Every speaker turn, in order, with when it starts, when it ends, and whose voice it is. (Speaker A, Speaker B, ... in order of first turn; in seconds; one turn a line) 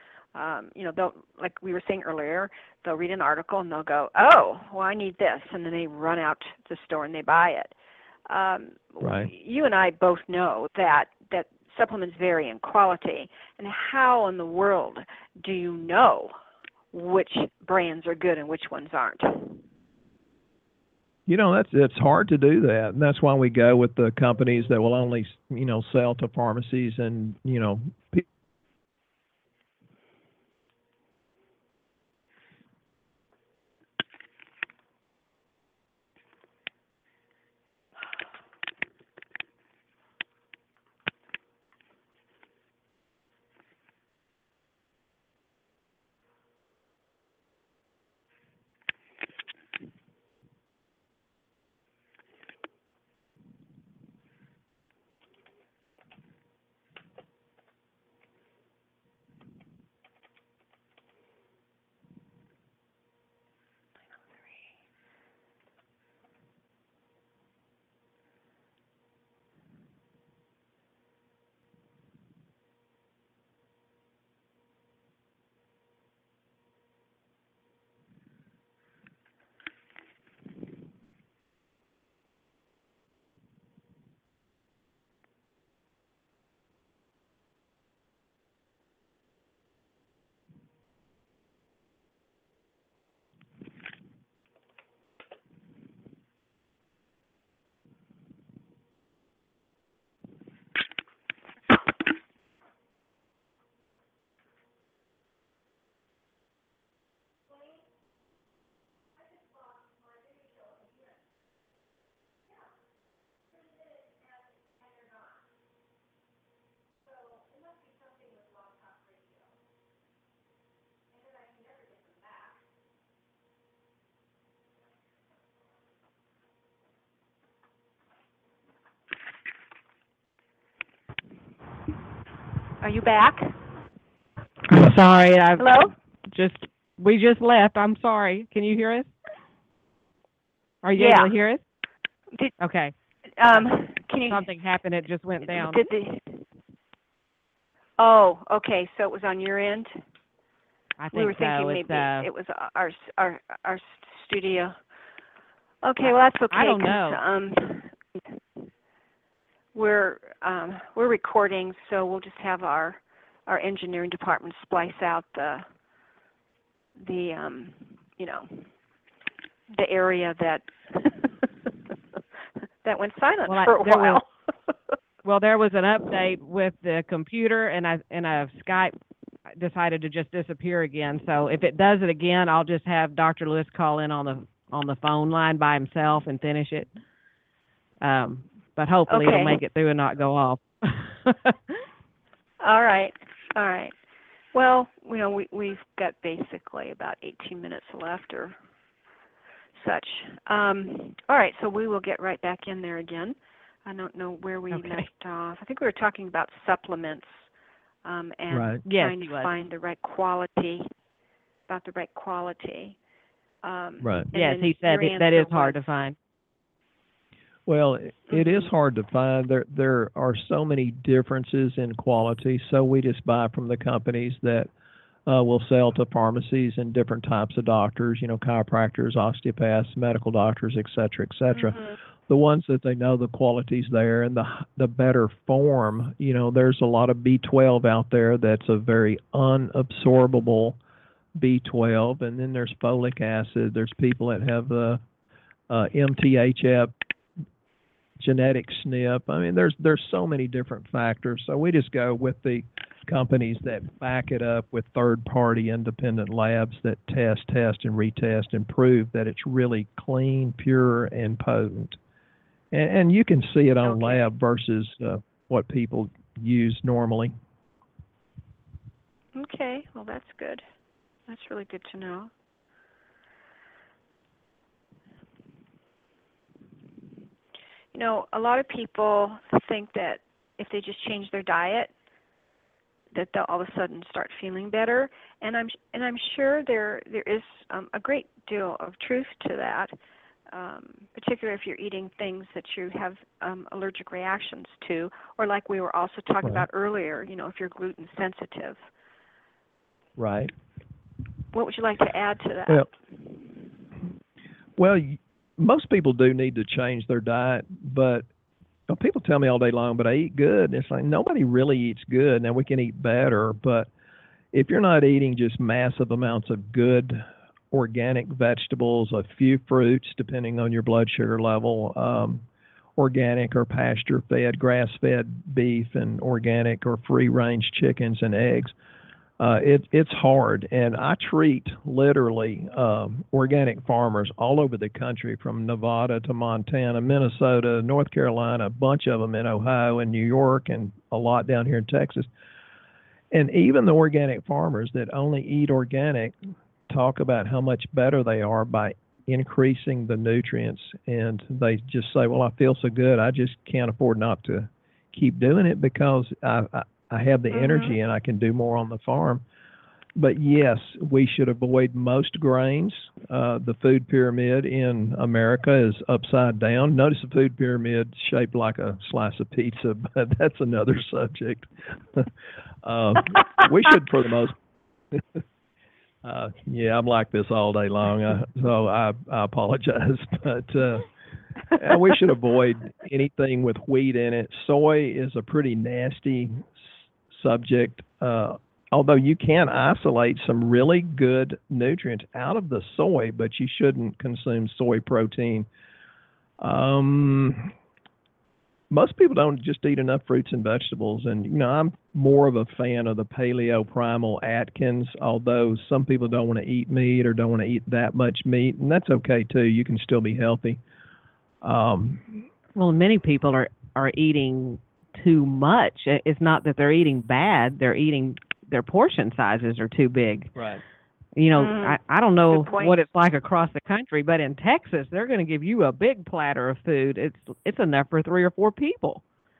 Speaker A: 0.3-7.7
Speaker A: 8.3-16.3
Speaker B: 9.0-9.3
Speaker A: 16.9-19.6
Speaker B: 21.3-28.2
Speaker A: 132.8-133.6
Speaker C: 134.7-135.8
Speaker A: 135.6-135.9
Speaker C: 136.3-139.1
Speaker C: 140.8-141.6
Speaker A: 140.9-141.3
Speaker C: 142.6-142.9
Speaker A: 143.4-144.4
Speaker C: 144.3-145.9
Speaker A: 145.5-146.4
Speaker A: 148.0-150.0
Speaker C: 151.0-152.3
Speaker A: 151.1-154.8
Speaker A: 155.8-157.9
Speaker C: 156.5-157.2
Speaker A: 159.7-165.6
Speaker A: 167.0-168.6
Speaker A: 169.7-171.5
Speaker A: 172.8-174.3
Speaker C: 173.5-174.2
Speaker C: 175.2-178.9
Speaker C: 179.6-186.9
Speaker C: 188.0-191.8
Speaker A: 189.1-189.6
Speaker A: 192.6-193.9
Speaker A: 194.5-198.5
Speaker A: 199.8-207.4
Speaker C: 204.7-205.1
Speaker A: 208.0-210.8
Speaker B: 208.5-208.8
Speaker C: 208.8-209.5
Speaker A: 211.7-212.9
Speaker A: 213.6-215.8
Speaker B: 214.0-214.3
Speaker C: 214.3-216.1
Speaker B: 217.7-224.7
Speaker A: 218.3-218.7
Speaker B: 225.2-240.8
Speaker B: 241.4-245.0
Speaker B: 245.7-246.9
Speaker B: 248.2-262.0
Speaker B: 262.7-267.3
Speaker A: 263.8-264.2
Speaker A: 269.3-270.6
Speaker A: 271.3-272.3
Speaker A: 277.9-281.9
Speaker A: 283.1-289.9
Speaker A: 290.5-298.8
Speaker B: 300.2-300.5
Speaker A: 301.5-302.9
Speaker B: 304.8-308.2
Speaker B: 308.9-313.9
Speaker B: 314.5-322.4
Speaker B: 323.0-328.7
Speaker B: 329.4-342.3
Speaker B: 343.3-346.4
Speaker B: 346.9-359.4
Speaker A: 357.5-357.9
Speaker B: 360.2-372.3
Speaker B: 372.8-374.6
Speaker B: 375.1-375.4
Speaker B: 376.2-381.1
Speaker B: 381.7-386.7
Speaker B: 387.3-395.7
Speaker B: 396.6-397.7
Speaker B: 398.9-410.8
Speaker B: 411.6-412.4
Speaker C: 412.7-420.5
Speaker B: 420.5-420.8
Speaker C: 421.4-429.2
Speaker A: 421.6-422.0
Speaker A: 422.5-423.0